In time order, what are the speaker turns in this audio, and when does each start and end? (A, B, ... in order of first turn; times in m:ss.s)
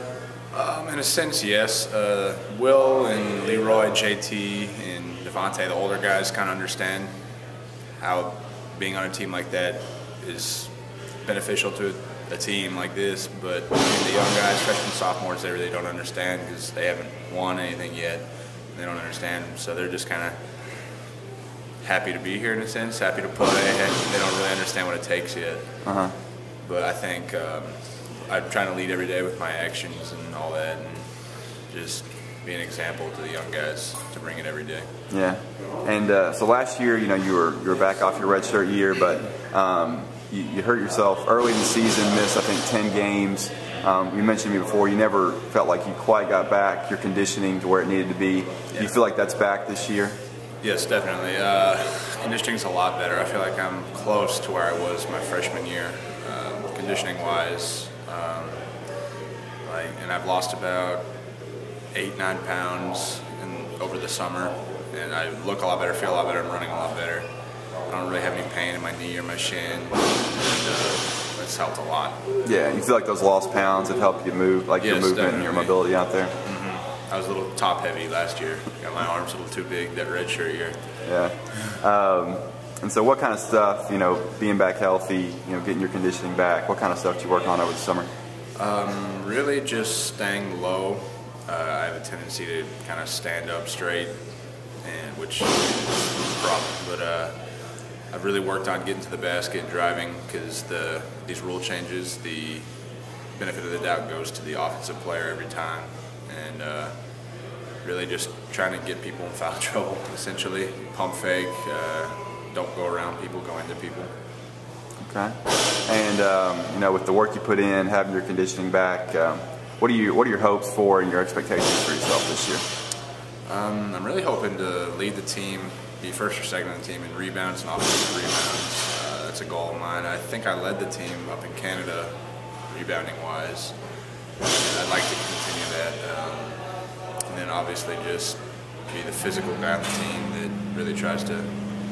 0:00.5-0:07.1 A
0:08.0-0:10.7 A
0:11.2-0:20.4 A
0:21.8-0:25.7 A
0:25.8-0:26.2 B
0:26.6-0:27.7 A
0:28.3-0:31.1 A
0:31.7-0:34.9 A
0:35.1-0:50.2 B
0:50.6-0:58.6 A
0:59.6-1:01.0 A
1:01.9-1:07.3 A
1:07.9-1:12.2 A
1:12.4-1:16.4 B
1:14.8-1:15.8 A
1:16.4-1:20.8 A
1:21.0-1:28.1 B
1:28.6-1:34.1 A
1:34.8-1:37.3 A
1:38.1-1:42.7 A
1:43.4-1:46.9 A
1:47.8-1:54.1 A
1:55.0-2:02.6 B
2:03.5-2:12.1 A
2:12.7-2:13.8 A
2:14.5-2:16.6 A
2:17.3-2:21.5 A